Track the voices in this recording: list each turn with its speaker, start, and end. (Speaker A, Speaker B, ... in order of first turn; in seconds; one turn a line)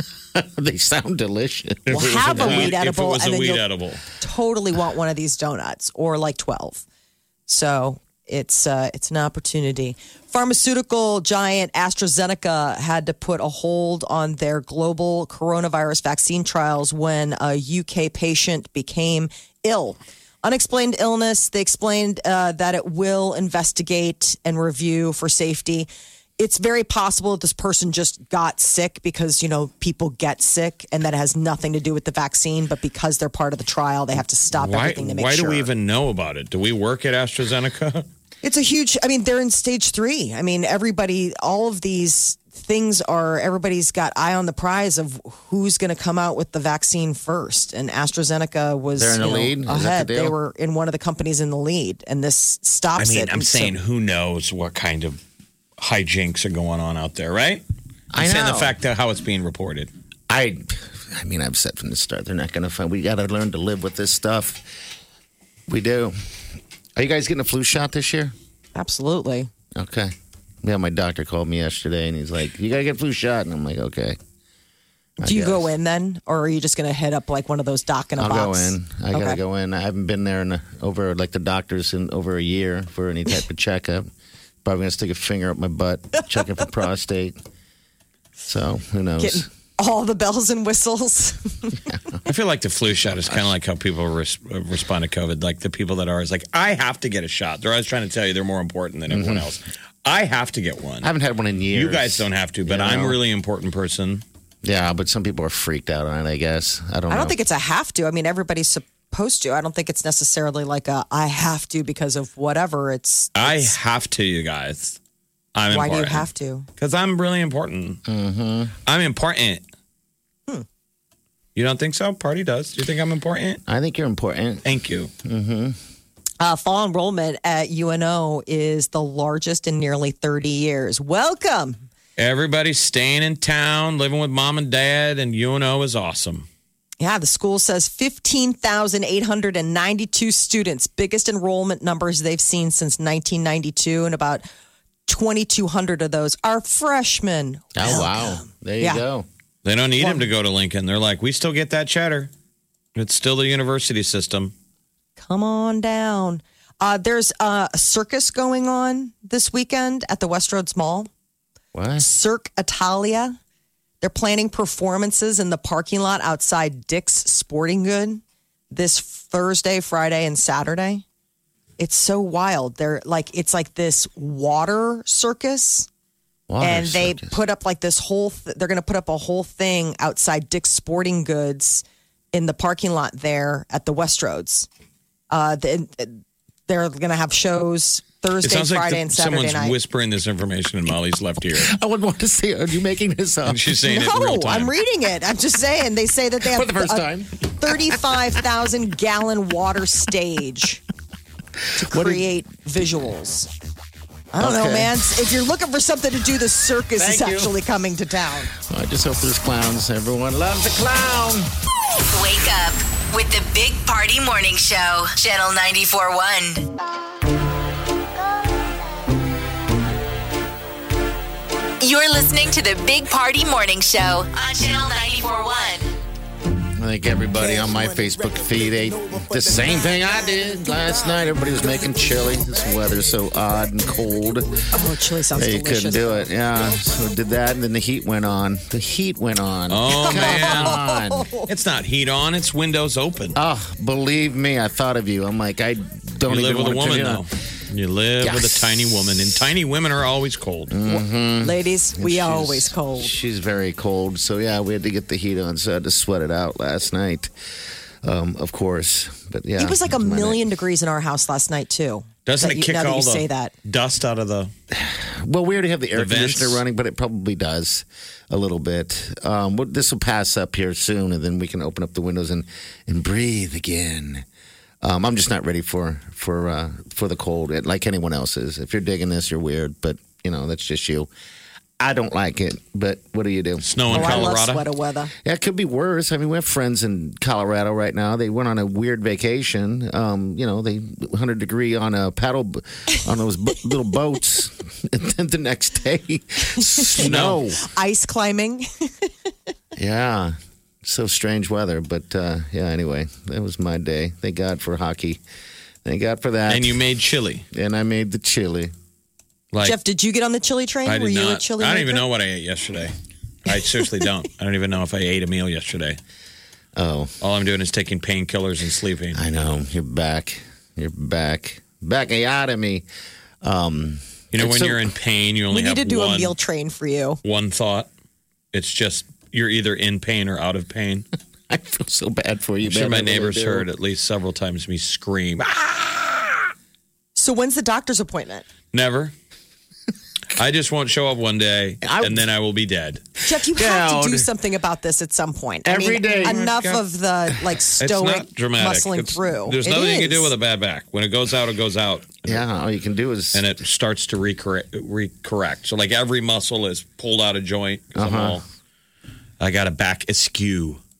Speaker A: 0.3-2.8
Speaker B: 1.9-4.0
Speaker C: 1.9-3.6
Speaker C: 4.2-6.8
Speaker C: 7.5-25.9
Speaker C: 26.4-35.7
Speaker B: 34.5-38.1
Speaker C: 38.4-53.8
Speaker A: 49.0-50.4
Speaker B: 53.0-55.2
Speaker B: 55.8-57.6
Speaker A: 58.1-58.8
Speaker B: 58.1-59.9
Speaker A: 60.3-64.7
Speaker A: 65.7-66.2
Speaker A: 67.0-68.3
Speaker C: 68.8-69.5
Speaker A: 69.8-74.2
Speaker A: 75.2-75.7
Speaker C: 75.2-79.4
Speaker A: 78.2-84.1
Speaker A: 84.6-87.3
Speaker A: 88.5-89.5
Speaker C: 89.2-91.8
Speaker A: 91.9-92.2
Speaker B: 92.3-101.1
Speaker A: 99.1-99.5
Speaker A: 101.0-103.2
Speaker B: 101.7-104.2
Speaker A: 104.6-107.4
Speaker C: 107.1-113.7
Speaker B: 113.4-115.0
Speaker B: 115.5-118.0
Speaker C: 115.7-116.7
Speaker A: 118.1-118.7
Speaker B: 118.9-119.6
Speaker B: 121.6-123.6
Speaker A: 123.7-124.7
Speaker B: 124.6-125.1
Speaker A: 125.2-125.8
Speaker C: 126.4-131.8
Speaker B: 132.2-136.5
Speaker C: 137.0-144.4
Speaker C: 145.1-149.0
Speaker A: 147.8-149.3
Speaker B: 149.6-152.3
Speaker C: 150.0-150.3
Speaker B: 152.9-154.5
Speaker C: 155.2-161.1
Speaker A: 161.7-162.1
Speaker C: 162.0-163.4
Speaker C: 164.0-171.0
Speaker C: 171.8-175.9
Speaker A: 176.5-177.4
Speaker C: 176.6-184.7
Speaker C: 185.3-189.8
Speaker B: 188.4-191.7
Speaker A: 191.5-193.7
Speaker B: 193.4-194.7
Speaker C: 193.8-200.8
Speaker A: 196.4-197.9
Speaker C: 201.8-203.5
Speaker A: 201.9-202.2
Speaker C: 204.3-208.5
Speaker A: 204.4-204.9
Speaker A: 207.0-207.6
Speaker A: 208.5-211.5
Speaker D: 212.1-216.7
Speaker D: 221.8-225.9
Speaker A: 226.8-234.6
Speaker C: 234.7-236.3
Speaker A: 235.3-241.3
Speaker B: 239.7-240.8
Speaker C: 239.9-241.5
Speaker B: 241.5-243.4
Speaker A: 243.3-247.2
Speaker B: 246.3-250.7
Speaker A: 248.2-249.3
Speaker A: 250.7-257.3
Speaker C: 250.9-253.1
Speaker A: 258.0-260.4
Speaker C: 259.6-263.5
Speaker B: 262.3-264.5
Speaker A: 264.7-274.2
Speaker B: 265.9-266.6
Speaker A: 274.8-281.1
Speaker A: 281.8-284.4
Speaker B: 283.6-284.6
Speaker C: 283.9-285.1
Speaker A: 285.2-297.6
Speaker C: 296.6-297.1
Speaker B: 297.0-297.4
Speaker C: 297.6-299.1
Speaker A: 299.8-305.2
Speaker A: 305.9-306.8
Speaker B: 306.5-307.4
Speaker A: 307.5-308.7
Speaker C: 309.6-312.0
Speaker B: 310.9-312.9
Speaker B: 313.4-316.0
Speaker A: 316.8-317.1
Speaker B: 317.2-319.2
Speaker A: 319.1-322.9
Speaker A: 323.4-324.9
Speaker B: 324.3-326.4
Speaker C: 325.5-327.2
Speaker B: 327.2-327.9
Speaker B: 328.5-331.1
Speaker A: 331.5-333.7
Speaker B: 332.6-336.5
Speaker C: 337.1-338.4
Speaker B: 338.7-339.1
Speaker B: 340.4-343.0
Speaker A: 341.8-342.2
Speaker C: 343.2-350.3
Speaker A: 343.4-344.3
Speaker A: 345.6-346.4
Speaker B: 346.1-346.8
Speaker B: 347.8-352.4
Speaker A: 352.3-353.4
Speaker B: 353.3-358.4
Speaker A: 357.9-358.4
Speaker B: 359.4-360.8